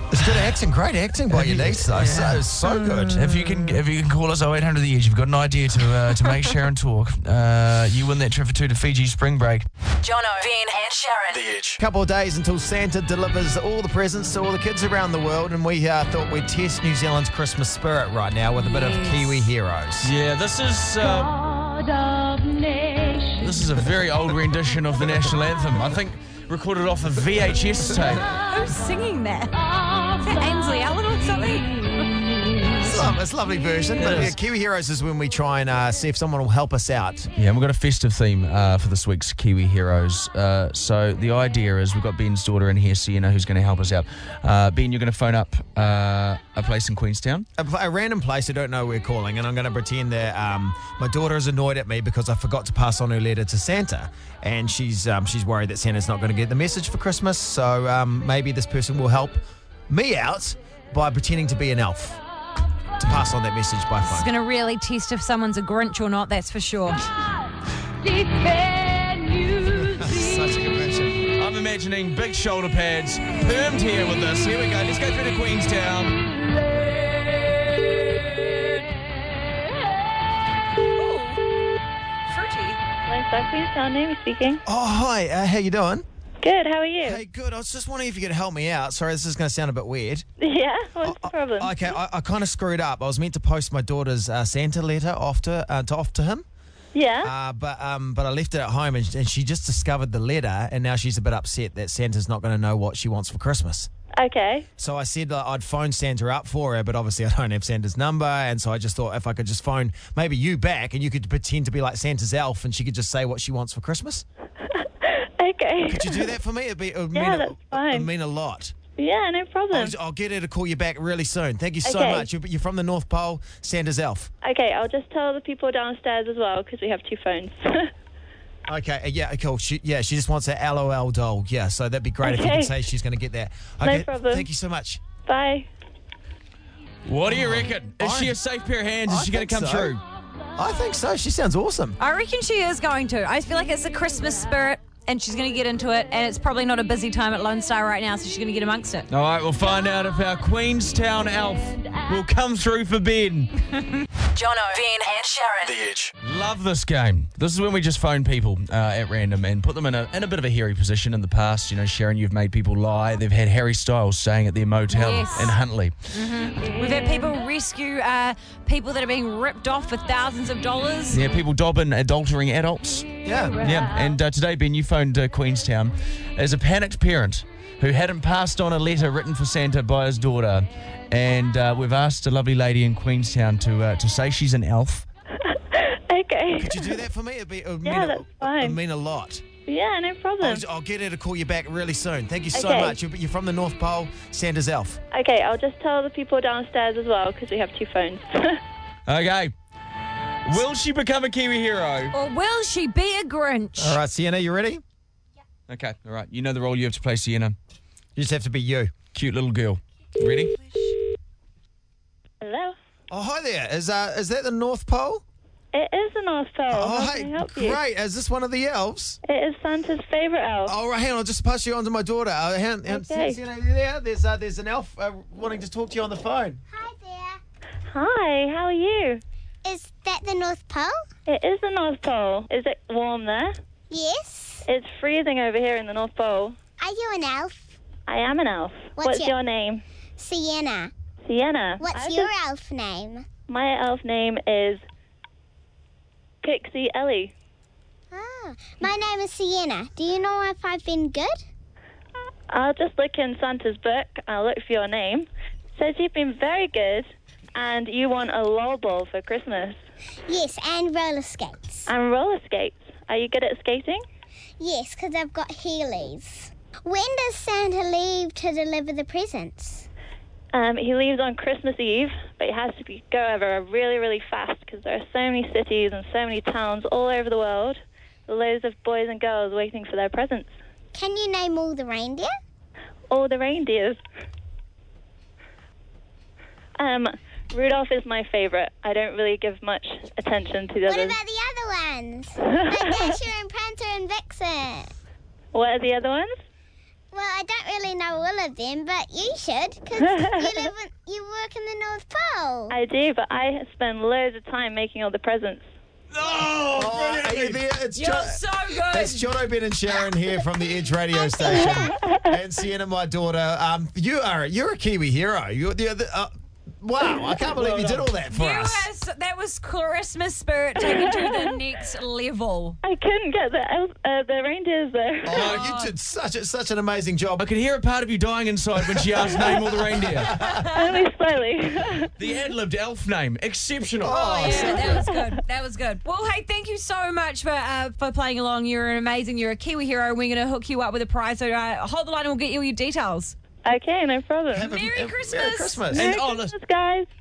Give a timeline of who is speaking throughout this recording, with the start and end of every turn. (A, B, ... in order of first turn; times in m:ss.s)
0:00.1-0:03.4 A
0:01.3-0:02.4 B
0:03.1-0:09.7 B
0:10.0-0:11.8 C
0:11.8-0:20.1 A
0:18.6-0:19.5 D
0:20.0-0:21.4 B
0:22.5-0:23.4 D
0:23.4-0:28.3 B
0:28.3-0:29.6 D
0:30.1-0:32.9 D
0:32.8-0:37.3 A
0:34.0-0:34.4 B
0:37.4-0:47.5 B
0:47.6-1:02.2 A
1:03.0-1:04.3 A
1:04.0-1:07.0 D
1:08.0-1:10.5 D
1:09.8-1:11.4 A
1:11.4-1:16.2 B
1:20.9-1:21.4 D
1:22.3-1:22.8 D
1:23.1-1:24.6 E
1:24.7-1:26.0 A
1:26.4-1:27.2 E
1:27.0-1:30.2 A
1:30.4-1:31.8 E
1:31.0-1:36.5 A
1:36.9-1:37.3 E
1:37.2-1:43.9 A
1:44.2-1:44.7 E
1:44.8-1:54.2 A
1:54.7-1:56.4 E
1:55.9-1:58.7 A
1:57.1-1:58.1 E
1:59.0-1:59.9 E
1:59.7-2:04.3 A
2:01.8-2:02.3 E
2:04.4-2:07.9 E
2:08.7-2:15.0 A
2:12.2-2:12.7 E
2:13.8-2:14.5 E
2:15.2-2:15.7 E
2:17.1-2:20.0 B
2:17.2-2:18.4 A
2:19.0-2:20.0 A
2:20.6-2:22.0 A
2:22.0-2:29.1 D
2:29.1-2:33.5 B
2:34.3-2:36.1 C
2:36.2-2:46.0 B
2:44.9-2:45.6 D
2:46.1-2:51.2 D
2:51.1-3:05.1 B
2:53.2-2:53.8 A
3:05.4-3:07.0 E
3:06.6-3:09.4 A
3:07.8-3:08.8 E
3:09.7-3:10.6 E
3:10.4-3:15.0 A
3:12.5-3:13.0 E
3:15.1-3:18.6 E
3:19.1-3:19.5 B
3:20.4-3:22.1 B
3:22.1-3:24.0 D
3:23.8-3:24.8 A
3:25.7-3:27.6 B
3:28.2-3:28.9 A
3:29.1-3:30.6 B
3:32.4-3:32.8 E
3:33.1-3:35.2 A
3:35.7-3:37.8 E
3:36.7-3:39.2 A
3:39.2-3:40.7 E
3:40.7-3:46.6 A
3:42.9-3:43.4 E
3:46.7-3:47.4 F
3:47.9-3:49.2 E
3:49.6-3:51.0 F
3:51.3-3:53.6 E
3:53.9-3:54.6 F
3:54.7-3:56.6 E
3:56.8-3:57.7 F
3:58.1-3:59.8 E
3:59.0-3:59.4 F
4:00.2-4:00.9 F
4:01.3-4:02.3 E
4:01.8-4:03.3 F
4:03.5-4:04.8 E
4:06.4-4:07.3 E
4:08.1-4:11.4 F
4:12.5-4:19.8 E
4:20.3-4:21.9 F
4:21.9-4:24.0 E
4:24.6-4:29.9 F
4:30.5-4:40.5 E
4:40.9-4:42.3 F
4:43.1-4:44.0 E
4:46.8-4:51.2 E
4:50.9-4:54.9 F
4:52.4-4:53.2 E
4:55.5-4:56.3 E
4:57.1-5:02.8 F
5:00.0-5:00.7 E
5:02.7-5:05.6 E
5:06.1-5:07.6 B
5:06.7-5:18.9 A
5:08.0-5:09.3 D
5:11.2-5:12.0 F
5:17.5-5:18.1 B
5:18.3-5:22.8 D
5:20.8-5:21.5 E
5:22.8-5:25.4 E
5:25.3-5:27.5 A
5:25.3-5:25.7 B
5:25.4-5:25.9 D
5:27.4-5:30.3 B
5:29.0-5:30.7 A
5:30.5-5:30.9 D
5:30.7-5:32.1 E
5:32.2-5:34.2 B
5:34.0-5:35.1 A
5:34.1-5:43.4 D
5:43.6-5:44.7 E
5:44.5-5:46.1 A
5:44.6-5:45.9 D
5:45.9-5:46.5 B
5:45.9-5:47.1 E